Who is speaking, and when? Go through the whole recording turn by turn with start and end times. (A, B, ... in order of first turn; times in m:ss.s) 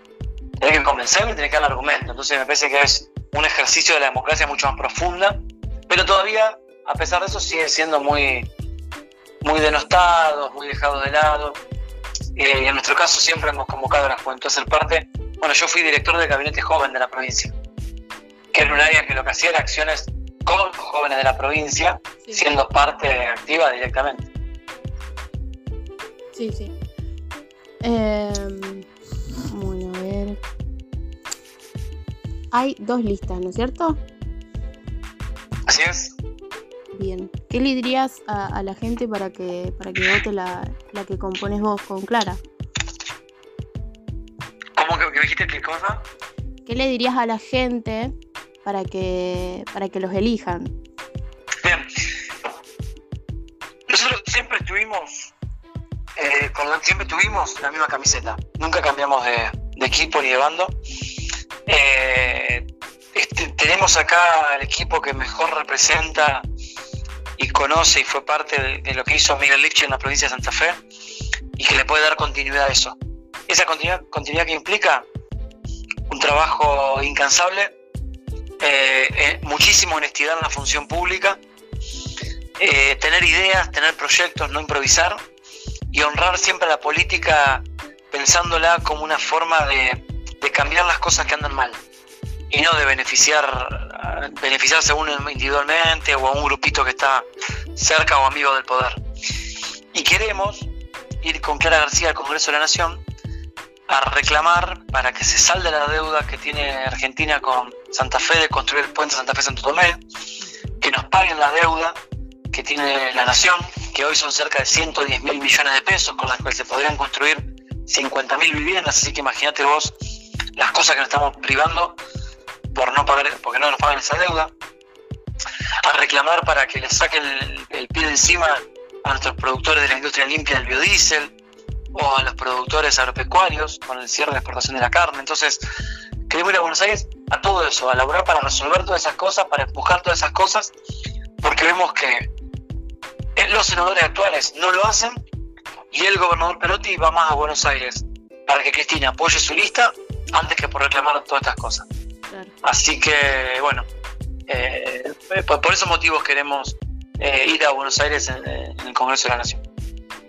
0:00.6-0:08.5 A
0:09.4-0:11.6 A
0:12.4-0:17.6 A
0:18.5-0:24.3 A
0:26.3-0:26.7 B
0:27.8-0:28.9 B
0:29.5-0:30.4 B
0:32.5-0:34.0 B
0:35.7-0:36.2 A
0:36.9-0:42.4 B
0:44.8-0:46.0 A
0:46.7-0:48.1 B
0:48.6-0:50.7 B
0:53.9-0:55.3 A
0:56.2-1:00.7 A
1:01.7-1:06.4 A
1:07.4-1:10.8 A
1:11.6-1:13.0 A
1:13.5-1:15.1 A
1:16.1-1:17.7 A
1:18.6-1:21.4 A
1:22.6-1:25.2 A
1:25.9-1:31.8 A
1:32.5-1:39.0 A
1:39.9-1:40.7 A
1:41.2-1:43.0 A
1:43.9-1:50.0 A
1:50.4-1:50.8 B
1:50.8-1:52.0 A
1:52.5-2:02.0 A
2:02.7-2:04.5 A
2:05.8-2:11.3 A
2:11.9-2:15.6 A
2:16.3-2:20.7 A
2:21.4-2:22.3 A
2:23.4-2:25.2 A
2:25.9-2:31.9 A
2:32.6-2:33.9 A
2:34.5-2:39.6 A